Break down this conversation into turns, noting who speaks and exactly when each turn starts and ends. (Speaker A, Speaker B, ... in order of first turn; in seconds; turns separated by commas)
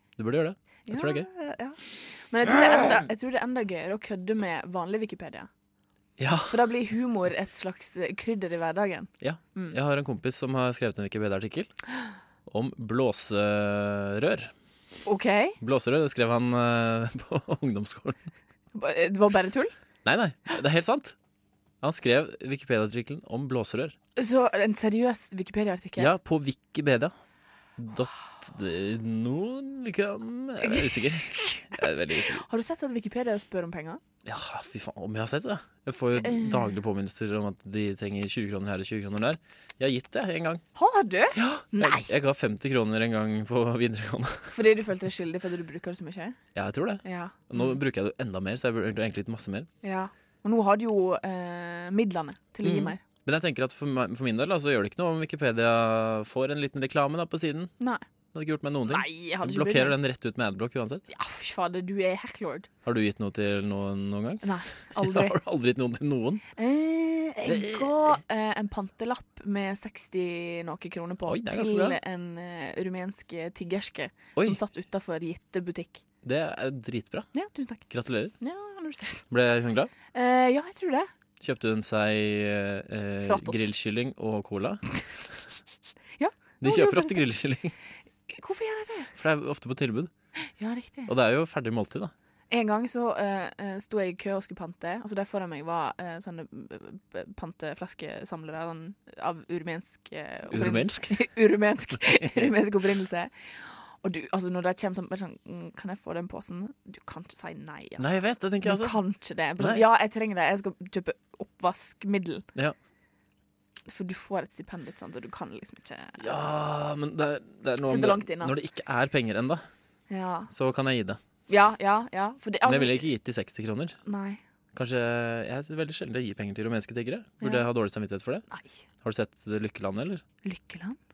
Speaker A: 0.2-1.3, Speaker B: 0.9-5.5, Speaker A: 6.2-6.6, Speaker B: 6.5-9.8, Speaker A: 9.2-11.7, Speaker A: 12.5-14.5, Speaker B: 15.1-15.6, Speaker A: 15.6-18.2, Speaker B: 18.7-19.7, Speaker A: 20.0-21.2, Speaker A: 21.8-24.0, Speaker B: 24.2-26.1, Speaker A: 26.0-27.1, Speaker A: 27.8-32.4, Speaker B: 32.3-34.0, Speaker A: 34.2-40.6, Speaker B: 36.2-36.8, Speaker B: 40.8-42.1, Speaker A: 41.4-44.6, Speaker B: 44.5-46.4, Speaker A: 46.5-49.7, Speaker B: 47.0-47.8, Speaker B: 49.8-53.0, Speaker A: 52.6-57.7, Speaker A: 58.3-61.1, Speaker B: 58.9-60.0, Speaker B: 61.1-62.7, Speaker A: 62.9-66.4, Speaker B: 64.4-65.4, Speaker B: 66.6-76.0, Speaker A: 67.5-68.0, Speaker A: 71.3-72.0, Speaker A: 76.2-77.3, Speaker B: 77.3-77.8, Speaker A: 77.9-78.3, Speaker B: 78.4-79.3, Speaker A: 79.3-79.9, Speaker B: 80.1-81.1, Speaker A: 81.4-85.3, Speaker B: 83.2-83.7, Speaker B: 86.2-87.2, Speaker A: 86.6-87.7, Speaker B: 88.3-89.1, Speaker A: 89.2-90.1, Speaker B: 90.6-91.1, Speaker A: 91.1-92.1, Speaker B: 92.5-108.1, Speaker A: 100.5-101.2, Speaker A: 102.0-102.5, Speaker A: 108.0-109.0, Speaker B: 108.6-112.5, Speaker A: 109.6-109.8, Speaker B: 113.9-116.2, Speaker A: 116.2-119.7, Speaker B: 117.9-118.6, Speaker B: 120.1-120.5, Speaker A: 120.5-121.2, Speaker B: 121.5-123.0, Speaker A: 122.6-124.0, Speaker B: 124.0-124.4, Speaker A: 124.7-128.4, Speaker B: 127.4-127.7, Speaker B: 128.5-128.8, Speaker A: 129.0-130.2, Speaker B: 130.4-131.0